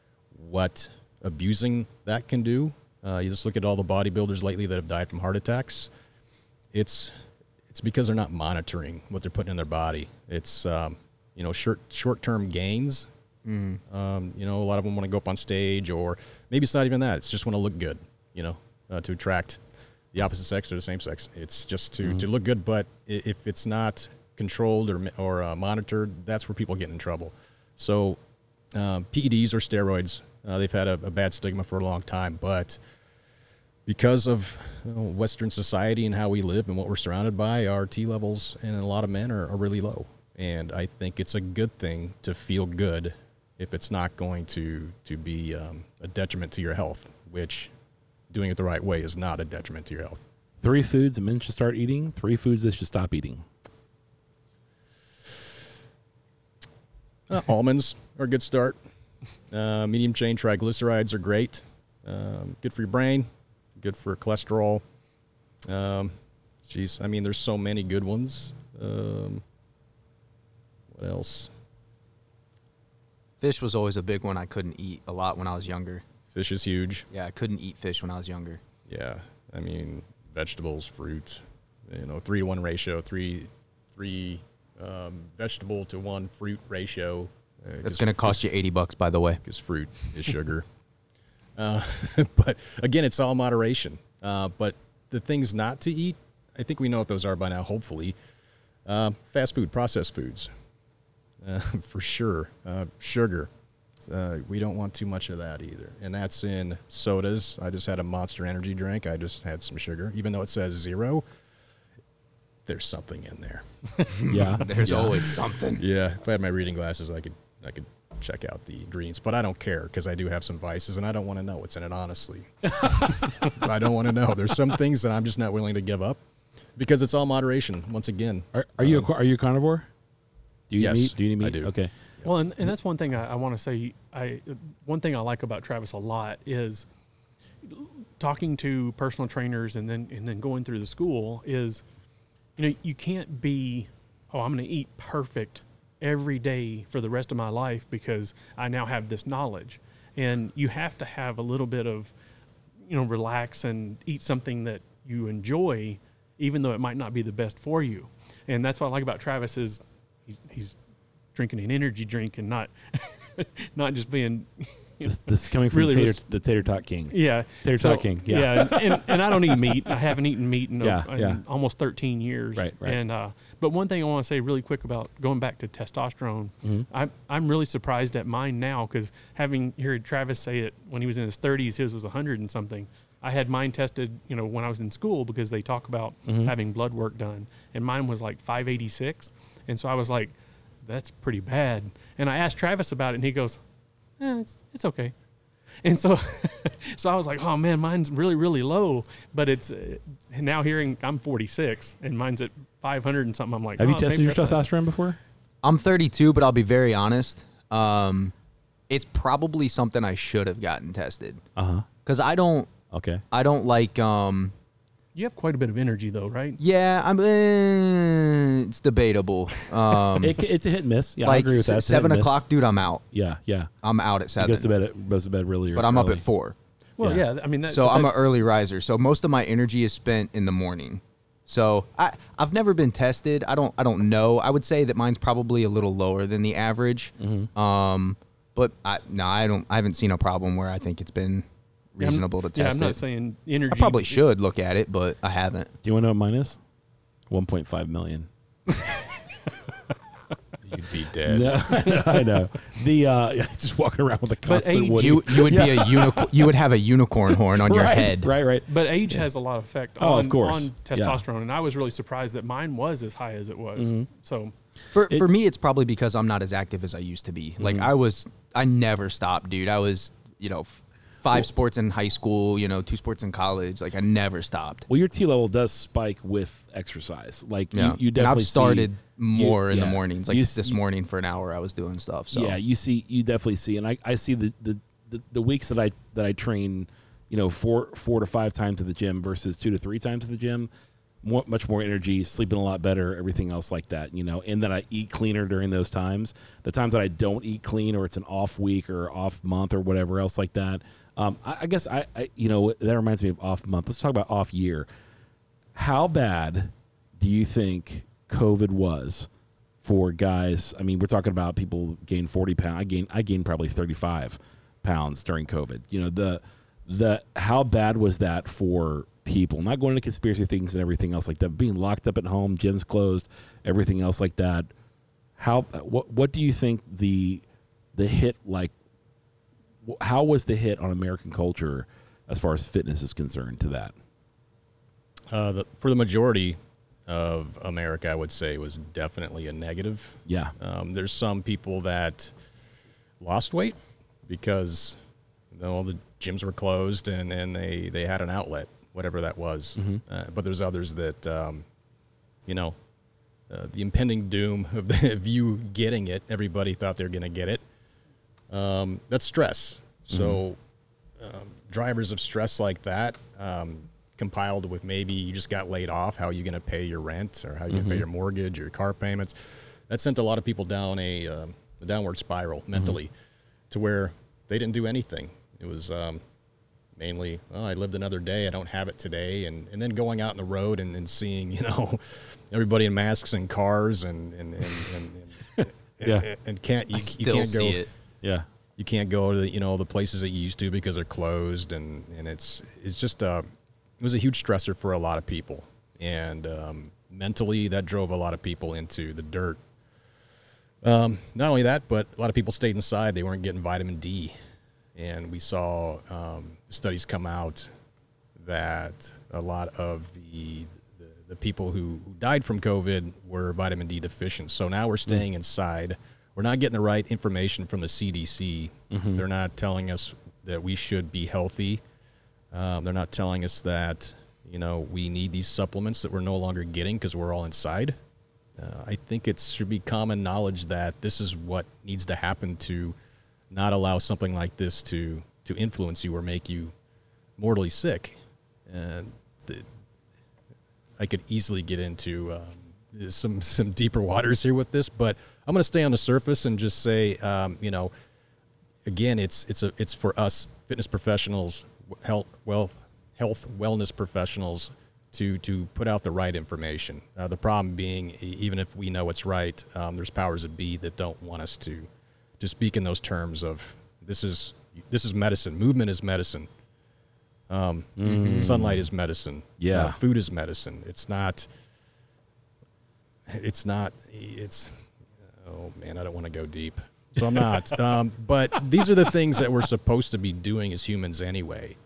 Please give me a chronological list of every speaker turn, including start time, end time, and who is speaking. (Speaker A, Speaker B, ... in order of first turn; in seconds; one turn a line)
Speaker A: 0.3-5.9
Speaker A: 6.7-7.1
Speaker A: 7.7-13.1
Speaker B: 13.4-13.8
Speaker A: 13.9-19.6
Speaker A: 20.1-28.2
Speaker A: 28.7-32.8
Speaker A: 33.9-47.7
Speaker A: 48.3-50.2
Speaker C: 50.6-53.5
Speaker A: 57.3-58.8
Speaker A: 59.5-64.8
Speaker A: 65.7-69.4
Speaker A: 70.9-71.5
Speaker B: 73.4-76.0
Speaker A: 76.3-77.1
Speaker B: 77.1-78.6
Speaker A: 78.9-88.4
Speaker B: 87.8-89.4
Speaker A: 89.5-90.7
Speaker A: 91.6-98.2
Speaker A: 98.9-100.5
Speaker A: 101.4-103.5
Speaker A: 104.0-111.2
Speaker A: 112.7-115.2
Speaker B: 114.2-115.8
Speaker C: 114.3-115.1
Speaker A: 115.8-126.2
Speaker C: 122.8-123.1
Speaker A: 126.8-129.1
Speaker C: 128.5-129.9
Speaker C: 130.7-131.9
Speaker A: 130.8-132.3
Speaker D: 132.2-136.9
Speaker D: 137.6-141.8
Speaker D: 142.6-152.1
Speaker D: 152.9-160.8
Speaker D: 161.3-166.3
Speaker C: 165.0-169.9
Speaker D: 167.1-193.6
Speaker C: 170.8-171.4
Speaker C: 172.6-173.0
Speaker C: 186.3-186.5
Speaker D: 194.2-195.1
Speaker D: 195.8-204.7
Speaker C: 203.8-205.2
Speaker B: 205.6-208.3
Speaker B: 208.9-211.4
Speaker C: 211.6-211.9
Speaker B: 212.1-212.7
Speaker C: 212.9-213.2
Speaker B: 213.3-214.5
Speaker D: 215.2-216.6
Speaker B: 216.6-220.4
Speaker C: 220.2-222.4
Speaker B: 221.2-223.1
Speaker C: 223.1-223.7
Speaker B: 223.8-224.7
Speaker C: 224.4-226.2
Speaker B: 225.8-226.6
Speaker D: 227.0-228.2
Speaker B: 227.7-243.0
Speaker C: 237.2-237.5
Speaker D: 242.0-244.2
Speaker B: 243.7-245.7
Speaker C: 245.8-246.6
Speaker C: 247.3-248.3
Speaker A: 250.6-251.6
Speaker C: 251.2-256.6
Speaker D: 251.9-252.2
Speaker D: 254.4-255.5
Speaker B: 254.9-258.3
Speaker C: 257.3-259.2
Speaker D: 258.7-264.5
Speaker C: 260.0-261.2
Speaker C: 263.8-264.1
Speaker B: 264.9-274.9
Speaker C: 267.6-267.9
Speaker C: 274.9-280.8
Speaker B: 277.7-282.6
Speaker C: 282.3-290.7
Speaker C: 291.2-304.9
Speaker C: 305.8-309.3
Speaker C: 309.8-324.7
Speaker C: 325.4-327.4
Speaker C: 327.9-328.7
Speaker C: 329.9-333.9
Speaker A: 335.3-342.3
Speaker C: 340.3-340.6
Speaker A: 343.2-345.0
Speaker A: 345.5-351.7
Speaker A: 352.5-352.8
Speaker A: 353.5-357.6
Speaker A: 358.5-360.6
Speaker C: 360.1-360.4
Speaker A: 361.2-369.4
Speaker C: 367.7-368.1
Speaker A: 369.9-373.1
Speaker A: 373.7-376.2
Speaker A: 377.0-387.8
Speaker B: 386.9-387.9
Speaker A: 388.8-393.5
Speaker A: 394.0-399.6
Speaker A: 400.8-404.4
Speaker A: 404.9-407.7
Speaker A: 408.4-421.8
Speaker C: 418.9-419.2
Speaker A: 422.5-428.0
Speaker A: 428.6-433.0
Speaker A: 433.5-436.7
Speaker A: 437.4-439.6
Speaker A: 441.0-447.9
Speaker A: 448.9-461.9
Speaker A: 462.4-466.5
Speaker A: 467.5-471.5
Speaker C: 468.0-468.9
Speaker C: 469.6-470.0
Speaker A: 473.3-481.8